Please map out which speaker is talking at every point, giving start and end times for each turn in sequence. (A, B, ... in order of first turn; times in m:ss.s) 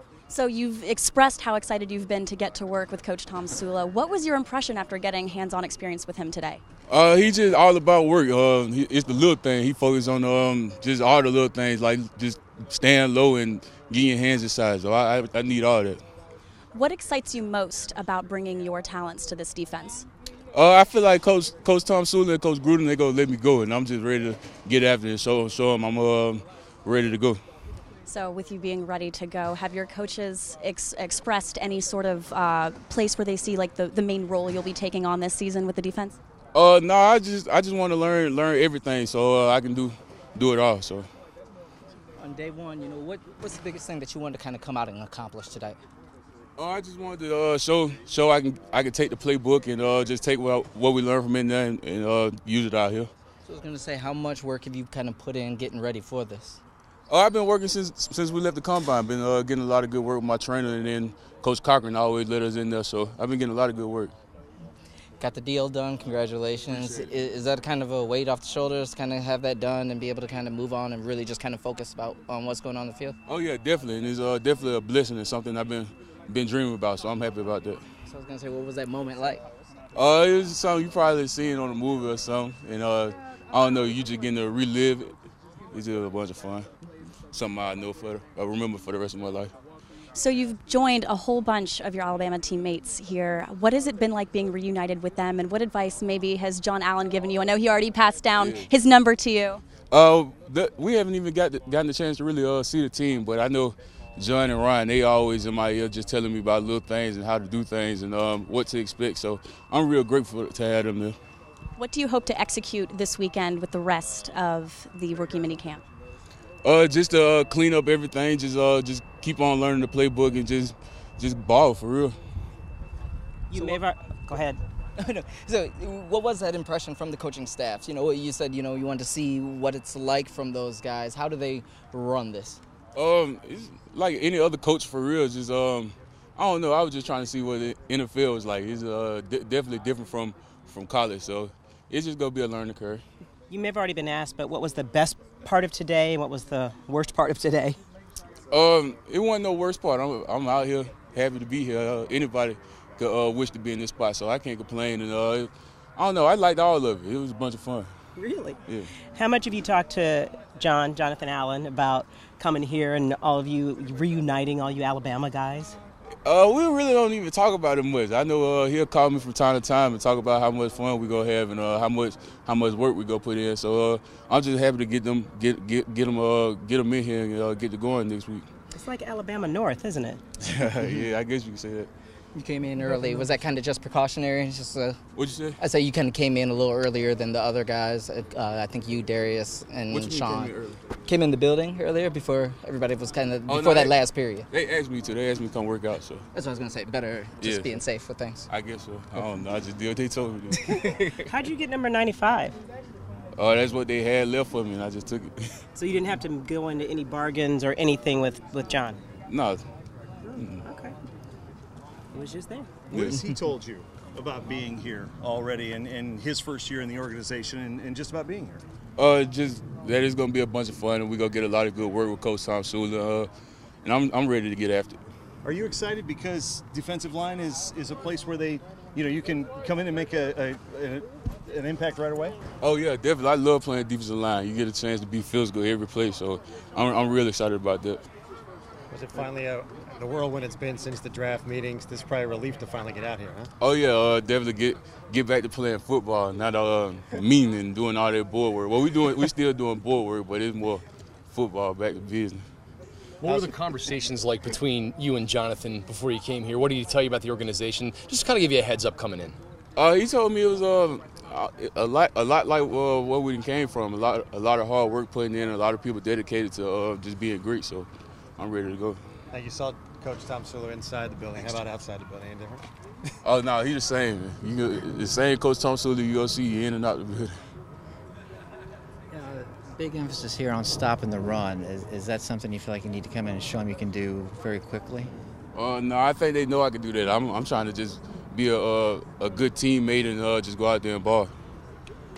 0:00.3-0:06.6 A
0:06.9-0:16.0 B
0:16.7-0:20.0 A
0:20.5-0:27.4 B
0:28.1-0:36.2 A
0:36.5-0:41.1 B
0:42.2-0:45.8 C
0:46.6-0:53.1 B
0:53.4-0:56.6 C
0:57.1-1:04.1 B
1:05.2-1:13.2 C
1:06.7-1:07.1 B
1:13.3-1:17.8 B
1:18.1-1:19.4 C
1:19.9-1:25.1 B
1:25.7-1:26.7 B
1:27.3-1:29.5 B
1:30.1-1:39.6 A
1:38.4-1:38.7 B
1:39.9-1:51.2 B
1:51.8-1:55.8 A
1:56.6-2:02.2 B
2:03.5-2:04.6 D
2:05.0-2:12.6 C
2:12.9-2:23.0 B
2:23.5-2:27.8 D
2:28.5-2:37.9 B
2:38.2-2:38.6 D
2:39.2-2:45.8 D
2:46.2-2:58.5 B
2:58.7-3:00.2 D
3:00.4-3:01.9 B
3:02.3-3:05.0 C
3:05.1-3:05.6 B
3:05.6-3:14.5 C
3:09.9-3:10.8 B
3:13.4-3:16.2 B
3:16.3-3:18.5 C
3:17.4-3:17.8 B
3:18.5-3:20.9 B
3:20.6-3:21.2 C
3:21.3-3:22.6 D
3:23.4-3:25.3 B
3:25.8-3:29.0 D
3:29.3-3:29.6 B
3:30.2-3:31.0 D
3:30.4-3:30.6 B
3:32.1-3:32.7 D
3:32.9-3:38.6 E
3:32.9-3:33.2 B
3:39.0-3:43.3 B
3:43.8-3:45.0 B
3:45.4-3:52.4 E
3:52.6-3:58.0 B
3:58.9-4:03.5 F
4:03.6-4:12.4 B
4:13.2-4:19.4 G
4:19.8-4:29.0 B
4:29.3-4:32.6 F
4:33.2-4:37.3 B
4:39.1-4:45.1 H
4:45.5-4:51.3 B